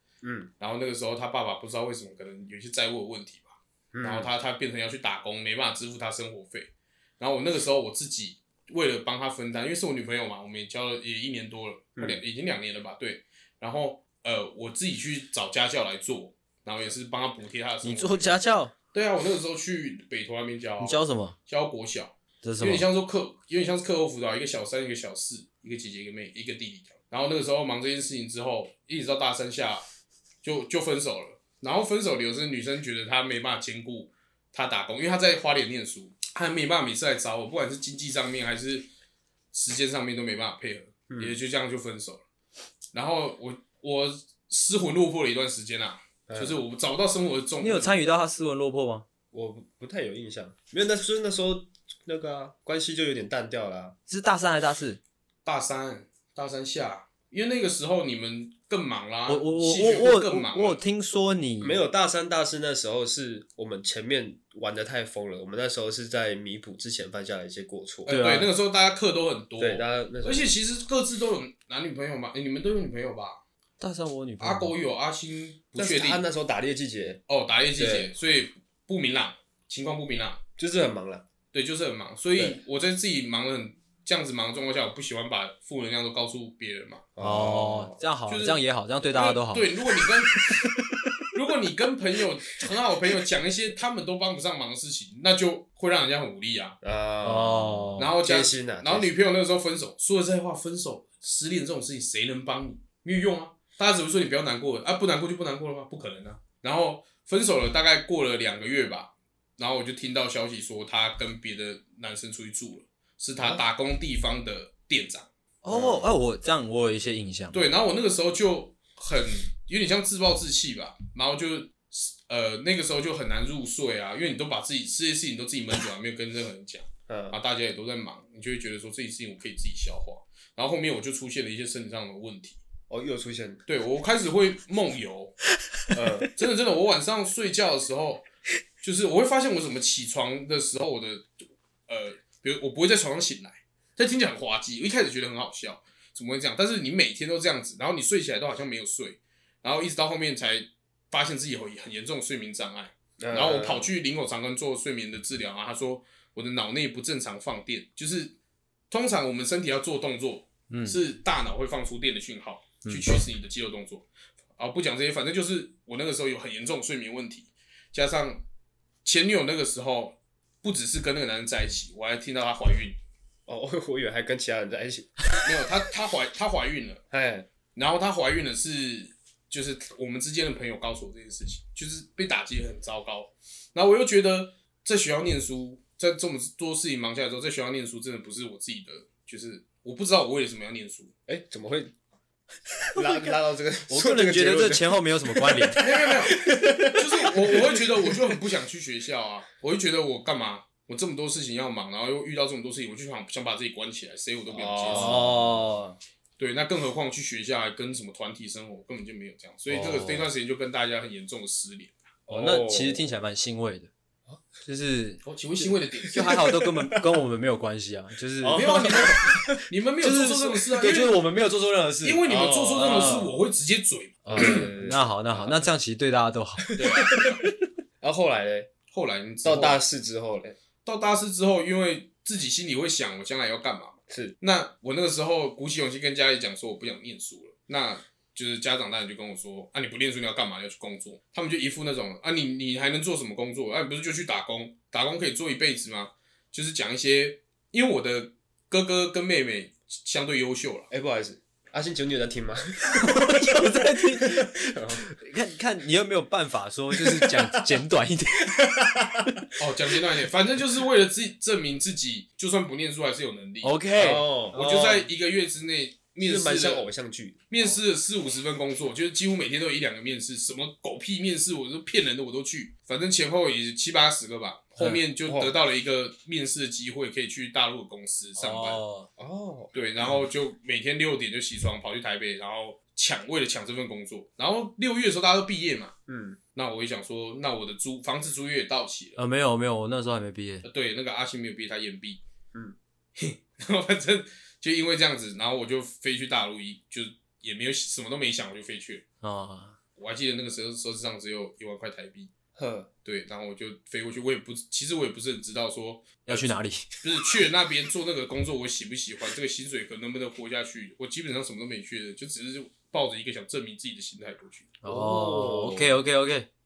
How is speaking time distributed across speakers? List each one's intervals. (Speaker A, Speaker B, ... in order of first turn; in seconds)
Speaker A: 0.2-0.5, 3.9-4.3, 41.1-41.4, 46.3-46.6, 49.3-54.0, 61.6-68.2, 69.6-70.5, 75.8-77.2, 77.8-78.1, 80.6-81.2, 87.2-88.0, 96.8-99.1, 115.7-116.1, 127.1-127.4, 132.9-133.6, 135.9-136.3, 153.2-153.8, 173.5-175.2, 177.1-177.5, 191.3-191.9, 192.9-198.3, 204.5-205.6, 212.3-213.0, 216.1-217.2, 218.4-219.6, 222.3-223.2, 224.2-225.1, 226.6-227.4, 228.0-228.7, 229.4-230.5, 234.1-234.3, 250.9-255.1, 257.0-257.8, 258.6-259.4, 264.0-264.8, 266.2-267.8, 275.2-275.5, 279.2-280.2, 286.1-286.4, 302.6-302.9, 314.8-316.0
Speaker B: 0.6-18.4, 18.9-29.8, 30.4-38.9, 39.5-42.2, 42.9-47.9, 55.4-60.8, 68.0-73.4, 74.4-76.2, 77.3-80.4, 81.5-87.0, 88.3-88.6, 89.1-90.5, 91.3-96.8, 98.0-115.3, 117.5-132.6, 133.7-135.3, 135.9-138.2, 138.8-141.3, 141.9-158.3, 158.9-164.1, 164.6-168.4, 169.0-173.0, 175.4-177.0, 177.7-191.1, 195.8-205.2, 206.4-211.9, 215.2-216.3, 218.5-221.2, 222.0-224.6, 226.7-227.4, 228.9-229.8, 230.8-250.9, 259.6-263.7, 264.5-266.9, 267.5-278.8, 279.7-285.9, 286.5-289.2, 290.6-292.2, 293.2-299.0, 300.0-302.3, 303.0-314.7
Speaker C: 17.8-18.7, 20.8-21.4, 22.4-22.9, 47.6-49.0, 54.1-55.0, 59.3-61.8, 68.1-68.5, 73.8-74.7, 87.2-89.7, 90.4-91.1, 97.2-98.1, 115.6-117.6, 160.7-161.0, 192.9-193.3, 193.9-195.8, 204.9-206.0, 209.7-210.3, 212.3-213.9, 214.6-215.2, 216.1-219.4, 220.0-222.2, 222.8-223.3, 224.3-227.3, 252.9-259.4, 263.6-265.0, 278.4-279.1, 289.2-290.6, 299.2-299.8, 306.2-306.9, 314.8-316.5